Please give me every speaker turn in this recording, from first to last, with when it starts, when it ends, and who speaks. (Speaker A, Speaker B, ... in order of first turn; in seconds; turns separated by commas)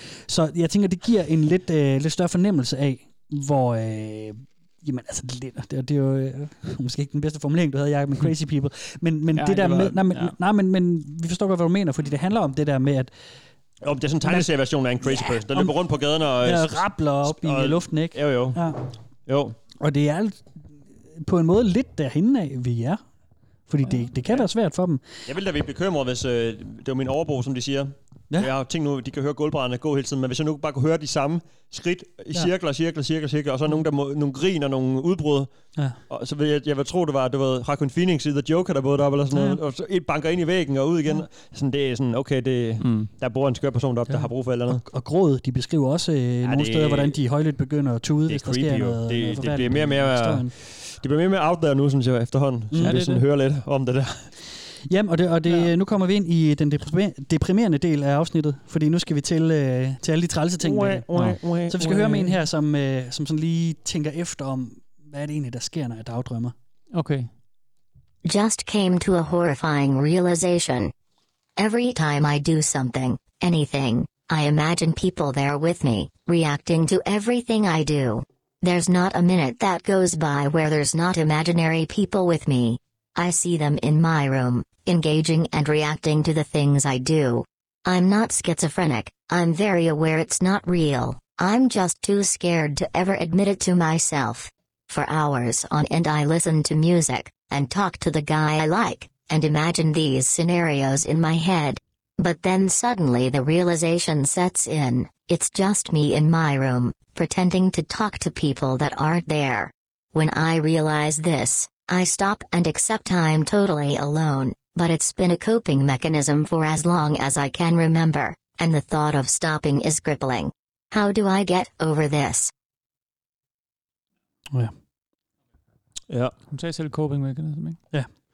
Speaker A: 0.3-13.1, Speaker B: 9.4-10.3, Speaker C: 9.5-9.9, Speaker C: 13.8-18.6, Speaker A: 15.0-15.7, Speaker A: 16.4-18.8, Speaker C: 19.3-19.6, Speaker A: 19.8-20.6, Speaker A: 21.2-23.0, Speaker A: 23.7-25.0, Speaker C: 25.3-35.5, Speaker C: 36.1-44.8, Speaker A: 39.3-39.6, Speaker B: 42.8-43.1, Speaker A: 44.1-50.5, Speaker C: 46.4-47.2, Speaker C: 48.3-54.2, Speaker A: 52.7-53.0, Speaker B: 52.8-53.2, Speaker A: 54.9-61.1, Speaker C: 60.6-62.4, Speaker A: 61.7-66.5, Speaker B: 66.9-67.3, Speaker D: 68.2-70.9, Speaker D: 71.6-122.5, Speaker B: 126.5-127.8